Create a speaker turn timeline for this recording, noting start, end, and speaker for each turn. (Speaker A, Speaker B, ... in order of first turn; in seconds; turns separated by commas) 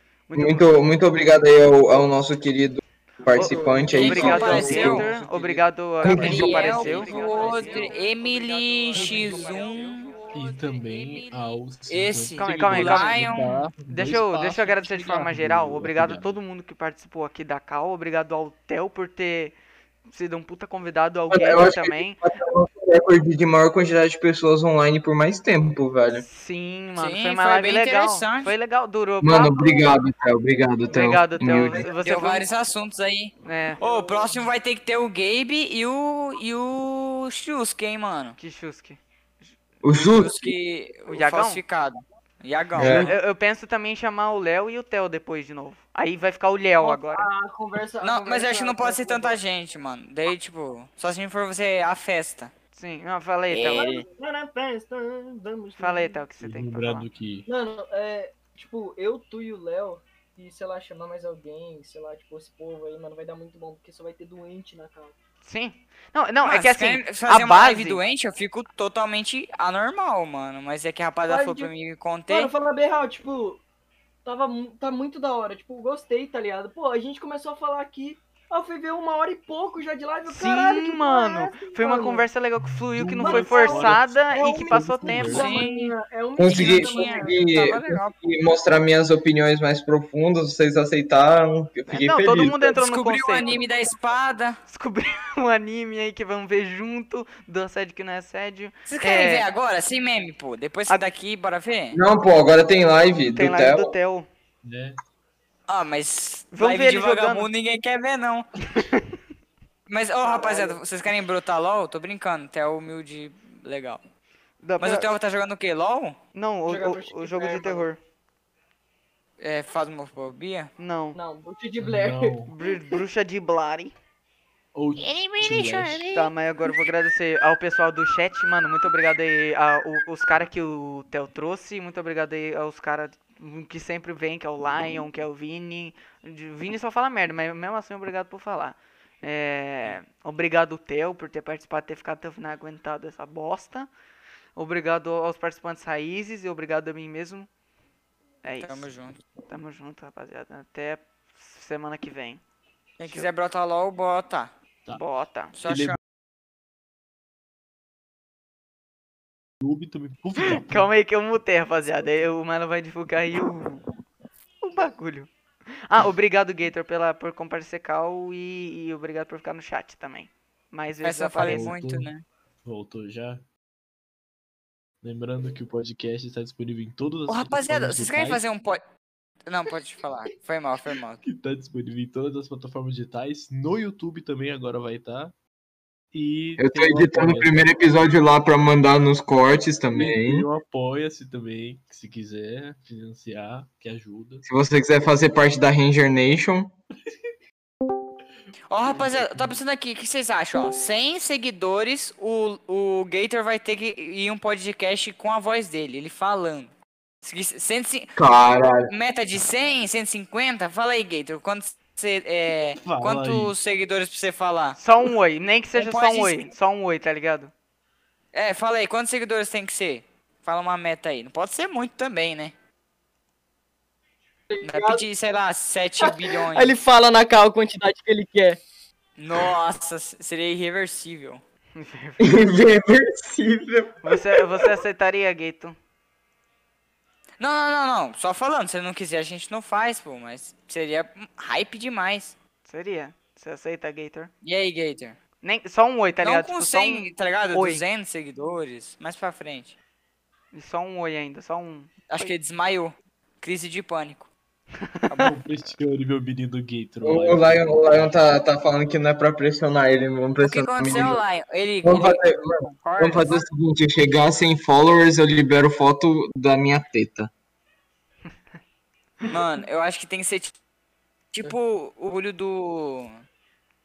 Speaker A: 0.3-0.9, Speaker B: 0.3-5.1, Speaker A: 3.3-8.3, Speaker C: 3.7-7.3, Speaker D: 3.9-5.1, Speaker B: 6.0-6.9, Speaker D: 6.0-10.2, Speaker A: 8.9-9.8, Speaker C: 9.0-9.4, Speaker C: 10.3-16.4, Speaker D: 10.9-11.3, Speaker D: 11.9-13.7, Speaker A: 12.4-13.3, Speaker A: 13.9-19.6, Speaker A: 20.1-22.2, Speaker B: 21.3-26.3, Speaker A: 26.2-29.9, Speaker D: 27.0-28.6, Speaker B: 29.2-31.9, Speaker A: 30.9-32.5, Speaker D: 32.0-38.4, Speaker A: 33.5-33.8, Speaker E: 33.8-34.2, Speaker A: 38.4-39.0, Speaker B: 39.8-40.5, Speaker D: 40.0-43.1, Speaker A: 41.1-41.6, Speaker B: 42.8-43.1, Speaker A: 42.8-47.3, Speaker E: 46.8-49.4, Speaker D: 48.0-52.5, Speaker A: 52.8-54.0, Speaker D: 53.5-54.0, Speaker E: 53.8-56.2, Speaker A: 55.8-57.1, Speaker C: 56.4-57.5, Speaker E: 57.5-65.1, Speaker A: 65.4-68.0, Speaker D: 66.4-72.5, Speaker E: 71.3-71.7, Speaker E: 72.3-73.6, Speaker E: 74.2-82.3, Speaker A: 80.3-85.6, Speaker C: 83.0-85.5, Speaker E: 83.2-87.4, Speaker D: 85.3-88.2, Speaker B: 86.4-92.8, Speaker A: 91.9-93.6, Speaker D: 92.8-94.6, Speaker A: 94.7-99.5, Speaker D: 98.9-102.0, Speaker B: 101.9-103.9, Speaker A: 103.2-104.3, Speaker C: 104.6-105.0, Speaker D: 105.7-108.5, Speaker A: 106.5-107.5, Speaker D: 109.9-114.0, Speaker E: 110.2-110.8, Speaker A: 114.6-115.1, Speaker D: 114.8-116.2, Speaker A: 116.3-118.0, Speaker E: 116.7-117.9, Speaker D: 119.4-120.7, Speaker A: 120.8-121.2, Speaker E: 121.2-122.3, Speaker C: 121.8-122.5, Speaker A: 122.5-123.9, Speaker C: 124.8-126.1, Speaker D: 125.0-126.3, Speaker A: 126.1-143.9, Speaker A: 144.6-147.5, Speaker A: 148.4-148.9, Speaker D: 148.6-149.2, Speaker A: 149.5-152.4, Speaker D: 153.0-154.5, Speaker A: 153.0-153.3, Speaker A: 154.9-155.6, Speaker D: 155.6-156.0, Speaker C: 155.6-156.0, Speaker C: 159.6-160.9, Speaker A: 160.4-163.8, Speaker A: 164.6-171.7, Speaker D: 171.0-172.2, Speaker C: 171.4-172.1, Speaker C: 172.7-173.4, Speaker C: 175.0-178.4, Speaker D: 177.3-178.8, Speaker D: 179.5-181.2, Speaker C: 181.2-185.3, Speaker C: 186.1-187.7, Speaker B: 186.6-190.5, Speaker C: 189.9-194.5, Speaker B: 194.4-196.7, Speaker D: 198.7-208.3, Speaker C: 198.8-199.6, Speaker B: 208.2-208.9, Speaker D: 208.9-214.8, Speaker C: 212.8-213.6, Speaker A: 214.8-217.5, Speaker D: 215.7-216.5, Speaker D: 218.3-222.5, Speaker E: 224.5-225.0, Speaker D: 224.6-226.8, Speaker E: 226.0-228.6, Speaker D: 229.2-231.4, Speaker A: 231.8-232.3, Speaker B: 232.2-234.7, Speaker A: 234.0-235.8, Speaker D: 237.4-242.4, Speaker A: 242.7-244.3, Speaker D: 244.4-245.2, Speaker A: 245.4-247.8, Speaker D: 246.2-249.8, Speaker A: 250.5-252.3, Speaker D: 252.1-254.3, Speaker A: 255.0-255.3, Speaker D: 255.1-255.3, Speaker C: 255.2-258.2, Speaker B: 257.0-261.2, Speaker D: 260.4-263.5, Speaker B: 261.8-267.3, Speaker D: 269.3-270.6, Speaker D: 271.3-273.2